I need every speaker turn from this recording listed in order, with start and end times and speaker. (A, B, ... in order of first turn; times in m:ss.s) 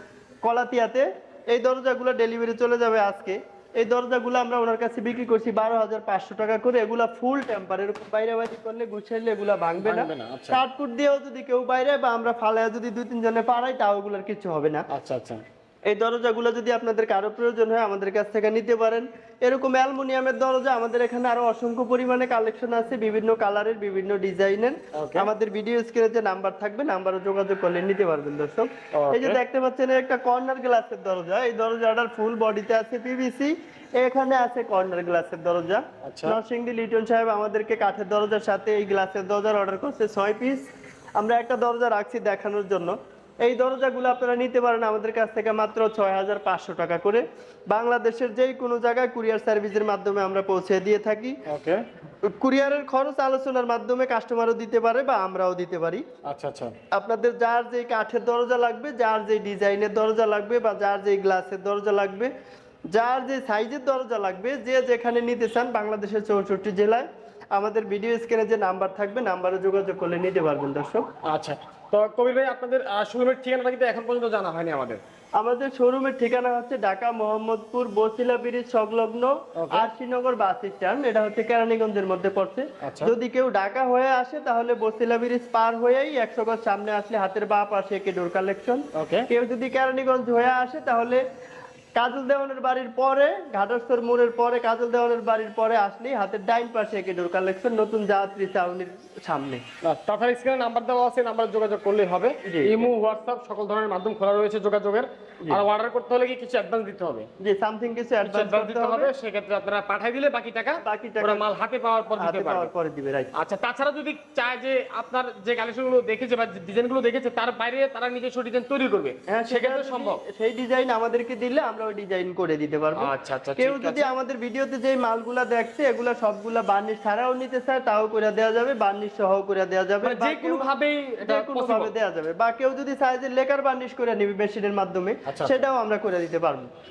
0:00.4-0:14.8 A
0:09.8-0:10.6 B
0:14.9-0:15.4 B
0:15.9-0:51.4 A
0:24.9-0:25.3 B
0:28.9-0:29.4 B
0:36.0-0:36.4 B
0:51.5-0:51.8 B
0:52.2-0:56.0 A
0:56.3-0:56.7 B
0:56.9-1:02.3 A
1:02.9-1:11.0 A
1:11.2-1:15.0 B
1:15.4-1:31.2 A
1:19.6-1:19.9 B
1:22.8-1:23.1 B
1:28.9-1:29.3 B
1:32.0-1:39.6 A
1:39.8-1:47.3 B
1:42.4-1:42.8 A
1:47.4-1:49.1 A
1:48.2-1:52.7 B
1:50.8-1:51.4 A
1:52.2-1:53.3 A
1:53.3-2:00.2 B
1:59.3-2:10.7 A
2:03.0-2:04.1 B
2:10.0-2:11.9 B
2:11.2-2:16.7 A
2:15.2-2:15.7 B